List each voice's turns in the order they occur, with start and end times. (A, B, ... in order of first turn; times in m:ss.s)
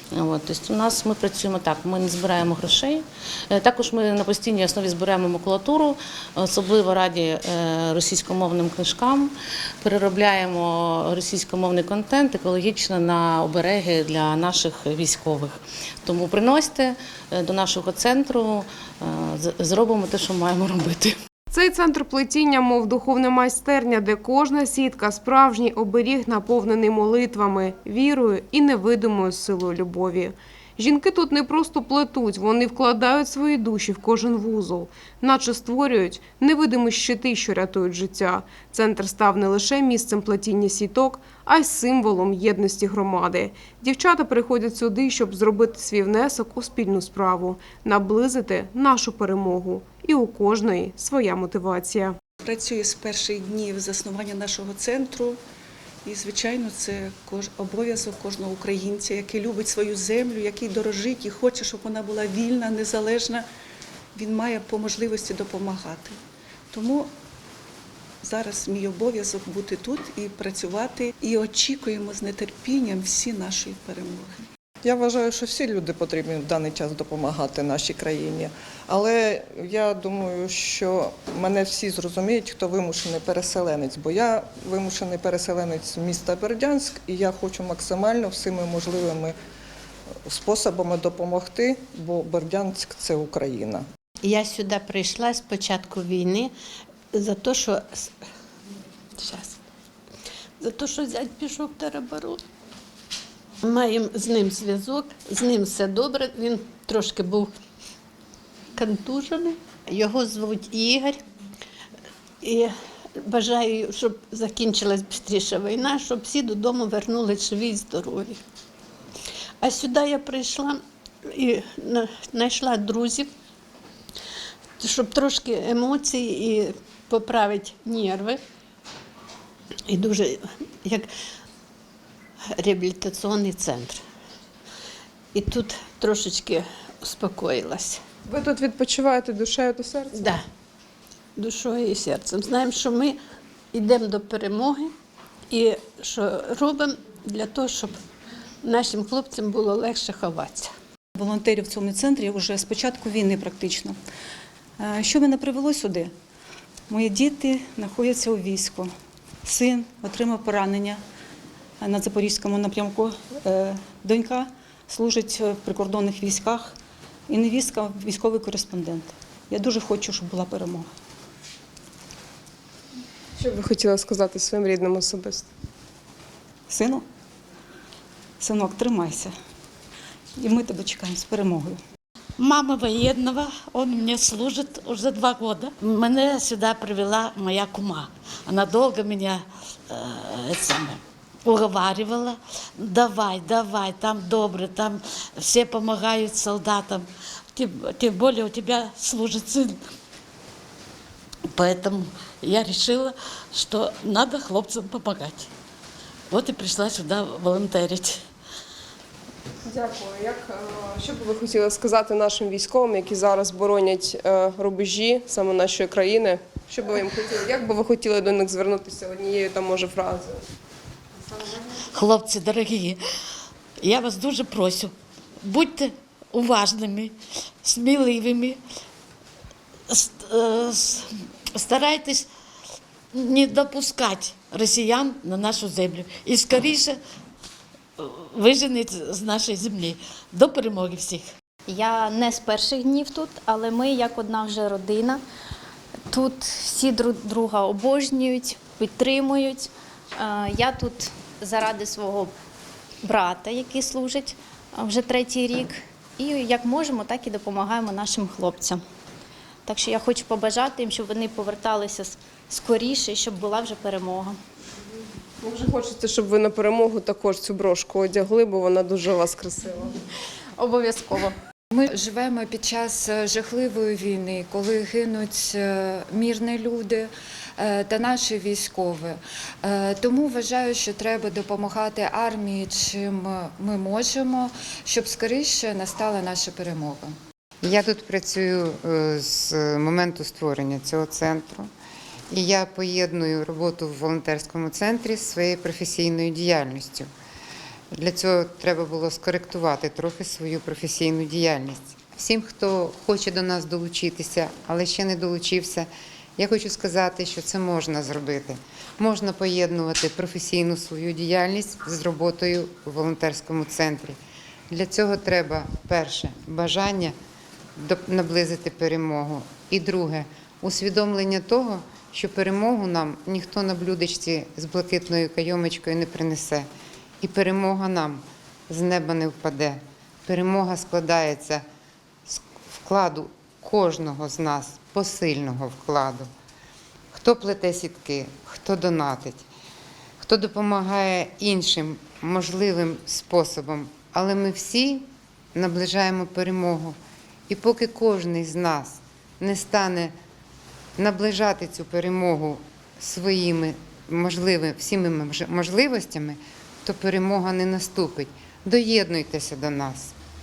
0:00.1-0:21.2 A
0:21.5-0:52.2 B
0:52.4-0:55.4 C
0:56.1-1:03.4 C
1:04.2-1:06.1 C
1:06.7-1:07.1 C
1:08.2-1:14.4 C
1:14.8-1:29.4 D
1:30.3-1:33.8 D
1:34.3-1:36.5 E
1:37.2-1:38.0 E
1:39.2-1:39.6 E
1:40.6-1:42.4 E
1:43.7-1:47.5 E
1:48.8-1:51.2 E
1:52.4-1:58.4 E
1:59.6-2:00.8 E
2:01.4-2:03.3 E
2:04.8-2:08.4 E
2:09.9-2:11.0 E
2:12.6-2:14.0 E
2:15.4-2:18.0 E
2:18.3-2:20.3 B
2:21.4-2:23.2 E
2:23.8-2:24.9 E
2:25.5-2:28.0 E
2:28.7-2:30.7 E
2:31.2-2:34.0 C
2:34.8-2:36.1 C
2:36.9-2:38.9 C
2:39.4-2:41.0 C
2:41.8-2:46.8 C
2:47.3-2:50.9 C
2:53.4-2:55.5 B
2:56.7-2:57.0 C
2:58.4-2:59.3 C
3:00.4-3:01.8 C
3:02.4-3:19.8 F
3:21.5-3:25.5 F
3:26.3-3:28.2 F
3:29.6-3:40.4 B
3:41.9-3:43.0 F
3:43.8-3:48.6 F
3:49.9-3:52.3 F
3:53.1-3:57.0 F
3:58.0-4:01.3 F
4:01.7-4:05.2 G
4:06.1-4:12.3 G
4:13.0-4:18.8 G
4:19.7-4:24.4 G
4:25.4-4:30.0 B
4:30.6-4:31.4 G
4:31.7-4:47.1 H
4:47.6-4:51.7 I
4:52.3-4:57.1 I
4:57.9-5:14.2 I
5:14.7-5:17.2 I
5:17.8-5:26.7 I
5:27.2-5:31.6 I
5:32.3-5:36.3 I
5:37.1-5:39.4 I
5:40.2-5:47.0 I
5:47.5-5:50.1 I
5:51.0-6:00.2 I